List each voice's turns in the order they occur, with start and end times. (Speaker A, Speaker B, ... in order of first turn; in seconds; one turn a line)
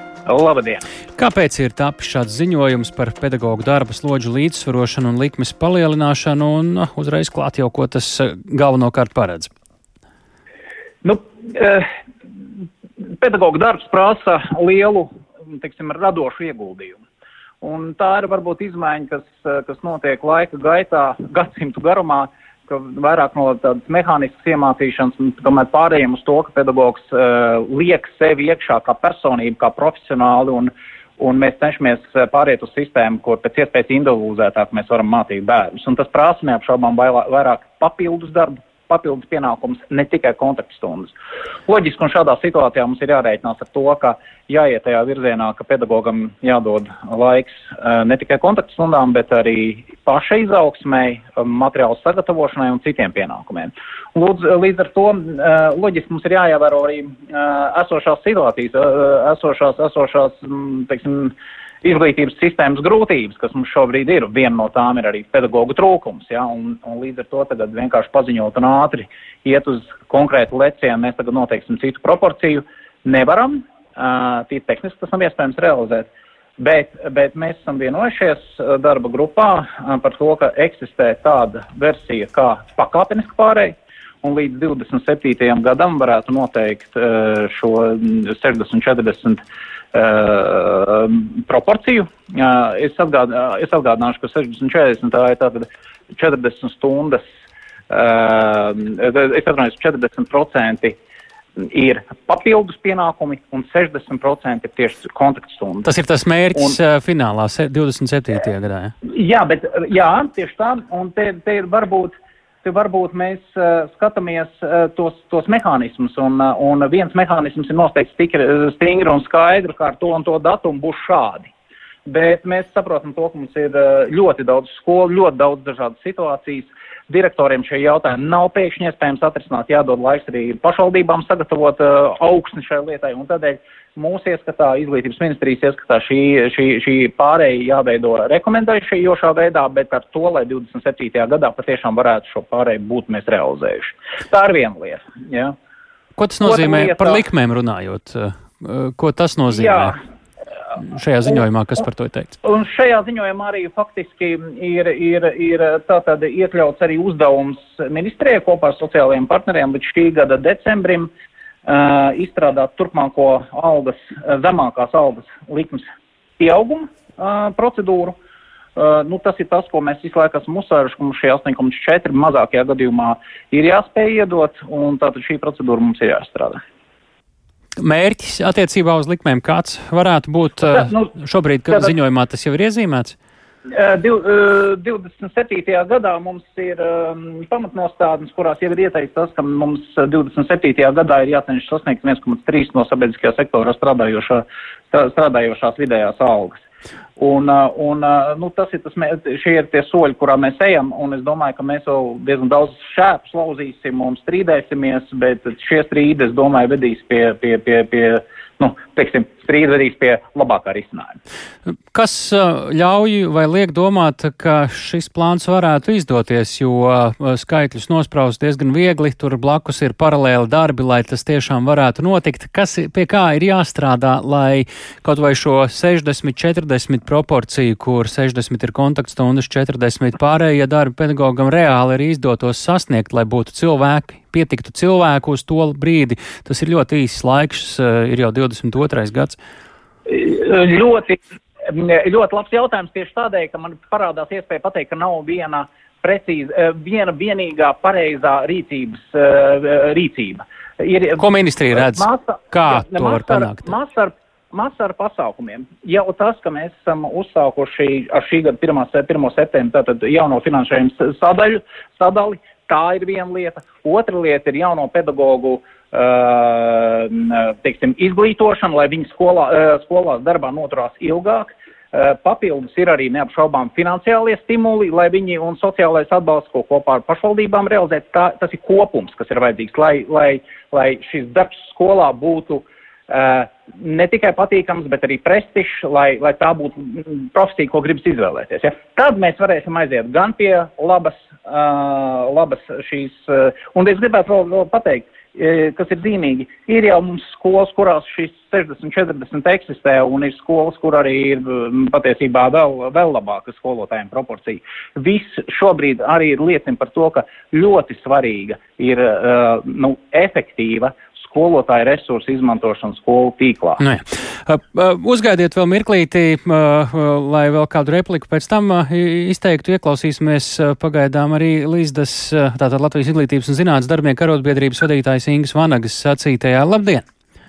Speaker A: 0.3-0.8
Speaker B: 1.2-9.5
Speaker A: 11.0-11.9
Speaker A: 13.0-17.0
Speaker A: 17.6-41.1
Speaker A: 41.7-97.2
Speaker A: 97.9-101.0
Speaker A: 101.6-105.9
Speaker B: 105.8-108.9
Speaker A: 109.0-121.5
Speaker A: 122.1-145.6
Speaker B: 146.2-149.9
Speaker A: 146.4-147.2
Speaker A: 149.5-149.9
Speaker B: 150.8-152.4
Speaker A: 152.4-161.1
Speaker A: 161.7-165.9
Speaker A: 166.4-168.2
Speaker A: 168.8-176.6
Speaker B: 177.8-183.2
Speaker A: 180.6-181.1
Speaker A: 183.7-196.6
Speaker A: 197.2-211.2
Speaker B: 211.7-239.4
Speaker A: 240.1-313.8
Speaker B: 251.2-253.7
Speaker B: 313.8-327.1